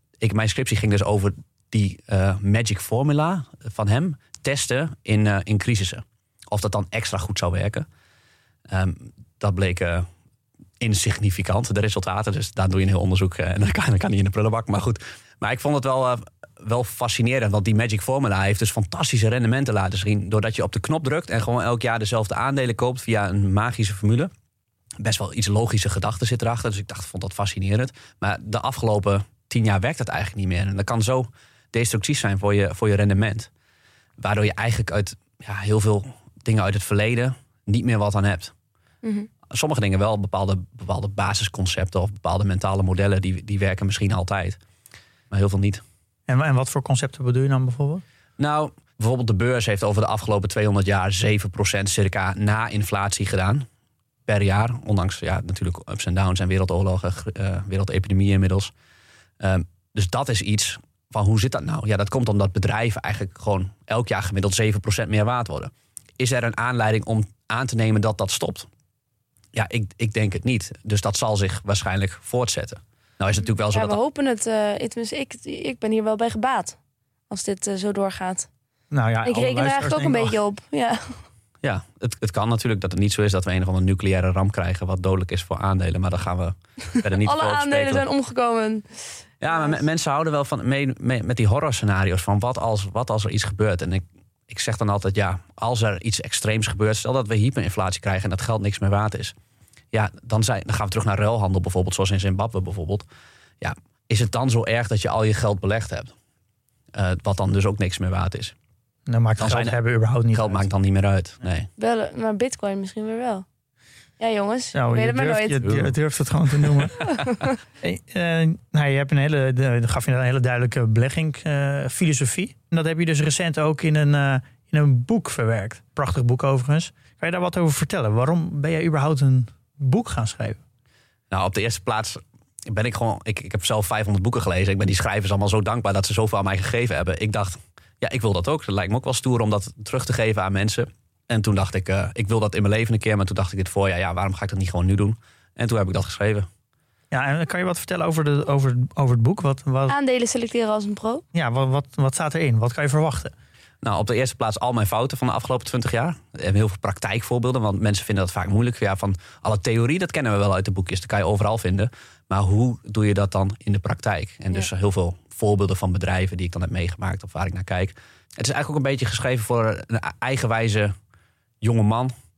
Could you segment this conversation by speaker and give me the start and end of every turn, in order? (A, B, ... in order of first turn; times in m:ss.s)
0:00.2-0:07.9 A
0:08.7-0:10.1 A
0:10.8-0:24.3 A
0:25.0-0:33.5 A
0:34.2-0:38.5 A
0:39.0-0:39.3 B
0:39.5-0:44.6 A
0:45.3-0:45.8 A
0:46.3-0:48.0 C
0:48.4-0:53.7 A
0:54.3-0:58.7 A
0:59.4-1:08.7 A
1:09.5-1:14.0 A
1:13.7-1:16.8 B
1:17.3-1:18.5 B
1:18.9-1:20.4 C
1:19.2-1:21.2 B
1:21.6-1:28.0 A
1:27.0-1:29.8 B
1:29.4-1:39.3 A
1:39.9-1:43.0 A
1:43.6-1:46.1 A
1:46.9-1:48.5 A
1:49.1-1:50.7 C
1:49.4-1:49.8 A
1:50.3-1:51.7 A
1:51.8-1:53.4 B
1:54.2-1:55.6 B
1:54.7-1:57.1 C
1:55.6-1:55.9 A
1:57.1-1:57.5 B
1:57.8-2:10.6 C
2:11.3-2:26.5 A
2:27.1-2:30.0 C
2:29.9-2:31.2 B
2:31.3-2:33.3 C
2:33.8-2:50.9 A
2:51.6-2:52.1 A